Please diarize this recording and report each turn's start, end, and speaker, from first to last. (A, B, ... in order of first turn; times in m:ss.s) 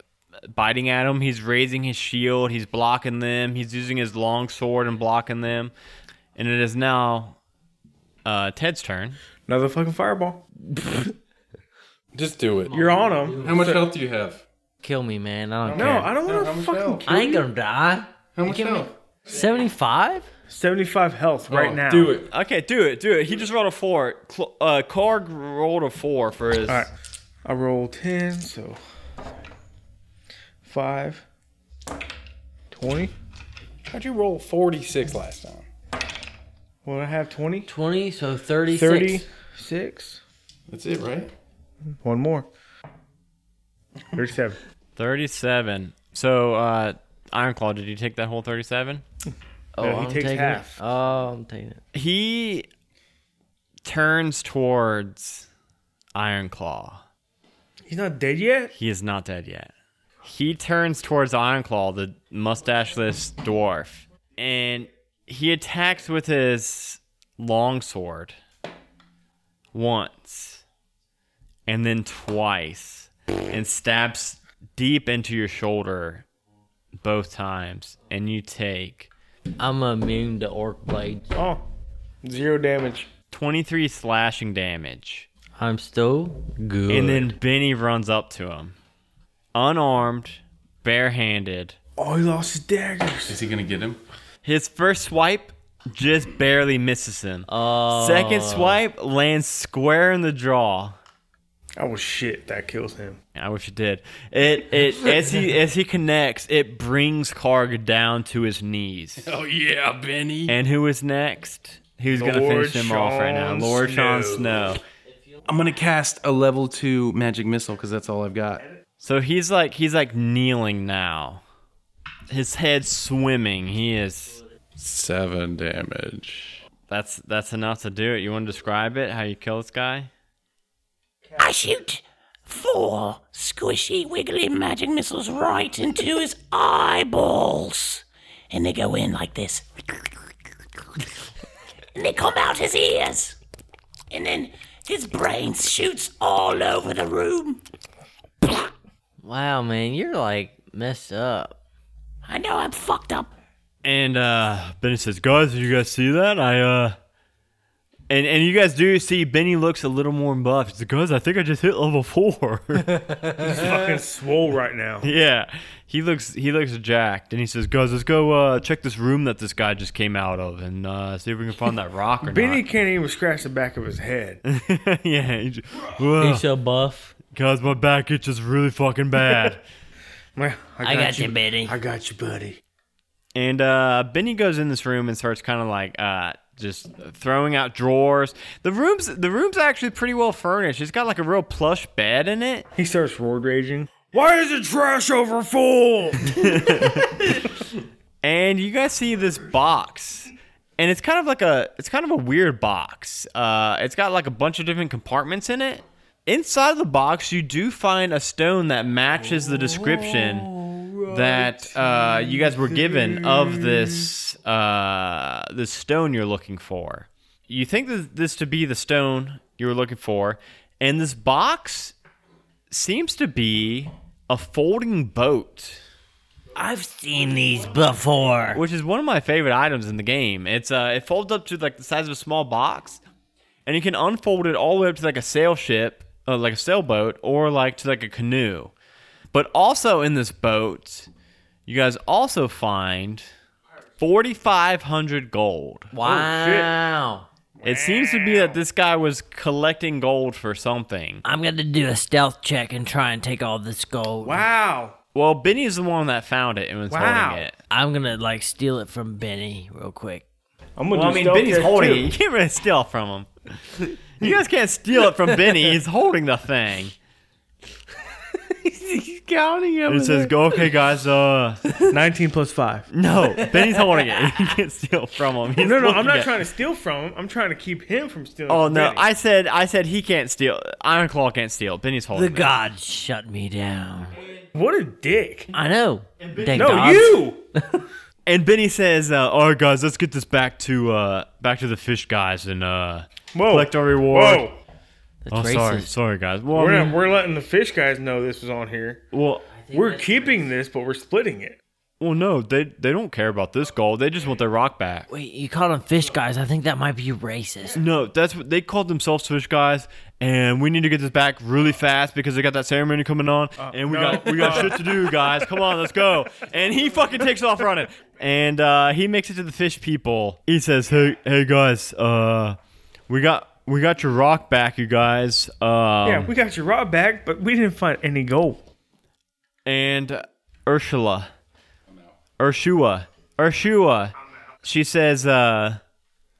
0:00.5-0:05.7 A
0:06.4-0:07.4 A
0:08.2-0:09.2 A
0:09.4-0:10.4 B
0:12.1-0:12.8 C
0:12.7-0:13.7 D
0:12.7-0:13.8 B
0:13.4-0:14.4 C
0:14.8-0:16.1 D
0:15.6-0:17.1 C
0:15.7-0:17.5 B
0:17.1-0:20.3 D
0:18.4-0:18.9 C
0:20.5-0:22.2 B
0:21.5-0:22.3 C
0:22.3-0:26.9 A
0:27.4-0:28.8 B
0:30.6-0:31.2 B
0:32.7-0:33.1 B
0:33.9-0:35.6 C
0:36.8-0:37.7 B
0:37.7-0:39.2 D
0:38.7-0:40.2 B
0:40.7-0:41.3 C
0:42.0-0:42.5 B
0:44.1-0:44.6 B
0:45.0-0:49.0 A
0:49.8-0:51.8 D
0:49.8-0:50.8 B
0:51.9-0:52.7 A
0:53.8-0:55.5 A
0:56.1-0:57.0 A
0:57.8-0:58.7 B
0:58.7-0:59.7 A
1:00.2-1:08.4 A
1:09.7-1:10.6 A
1:11.7-1:16.2 A
1:17.0-1:19.1 A
1:19.6-1:21.3 D
1:21.3-1:21.6 B
1:22.2-1:23.1 B
1:23.3-1:25.3 A
1:25.6-1:27.3 D
1:26.9-1:28.8 A
1:29.5-1:31.8 A
1:32.0-1:33.4 B
1:33.2-1:34.0 C
1:34.4-1:41.0 A
1:37.5-1:38.8 D
1:41.8-1:43.2 B
1:43.3-1:49.3 A
1:49.2-1:50.6 C
1:50.5-1:54.8 A
1:52.1-1:54.6 B
1:55.4-1:58.6 C
1:59.0-2:01.4 A
2:02.3-2:04.4 A
2:04.8-2:06.6 C
2:06.9-2:10.1 A
2:11.4-2:19.6 E
2:21.9-2:23.4 E
2:24.1-2:27.6 E
2:29.2-2:31.5 D
2:32.2-2:33.3 E
2:33.8-2:37.0 A
2:38.1-2:42.9 A
2:42.9-2:43.9 D
2:43.4-2:45.1 B
2:45.0-2:52.6 A
2:52.2-2:54.4 B
2:54.4-2:56.4 A
2:56.2-2:57.1 D
2:57.3-2:59.6 A
3:00.3-3:02.6 B
3:00.8-3:01.8 D
3:03.3-3:12.7 A
3:12.8-3:17.1 B
3:16.3-3:17.5 A
3:18.2-3:30.5 A
3:29.3-3:34.1 B
3:31.1-3:41.9 A
3:42.7-3:45.8 A
3:46.5-3:48.6 D
3:48.5-3:53.0 A
3:53.6-3:58.7 A
3:59.3-4:01.1 A
4:01.7-4:03.3 A
4:04.0-4:05.9 A
4:05.9-4:07.3 D
4:06.0-4:06.8 B
4:07.6-4:08.6 B
4:07.6-4:11.2 A
4:11.2-4:14.4 D
4:14.2-4:15.0 B
4:15.1-4:17.5 A
4:16.9-4:17.4 B
4:17.7-4:20.2 D
4:20.8-4:22.1 B
4:20.9-4:26.9 A
4:28.3-4:30.5 D
4:29.9-4:31.7 A
4:31.9-4:32.9 B
4:32.9-4:36.3 A
4:33.3-4:34.5 D
4:35.6-4:39.0 B
4:38.5-4:42.5 A
4:42.1-4:44.2 D
4:44.5-4:45.5 B
4:45.5-4:47.6 D
4:46.2-4:47.2 A
4:46.5-4:47.4 B
4:48.2-4:54.5 A
4:53.3-4:54.6 B
4:55.2-4:55.9 D
4:55.3-4:57.0 A
4:56.5-4:59.0 B
4:59.1-4:59.5 A
4:59.5-5:00.5 D
4:59.7-5:01.6 B
5:02.0-5:05.1 A
5:05.1-5:07.8 D
5:07.7-5:22.6 A
5:13.6-5:15.5 B
5:23.1-5:26.3 A
5:26.0-5:28.6 B
5:29.6-5:31.3 A
5:32.4-5:35.8 A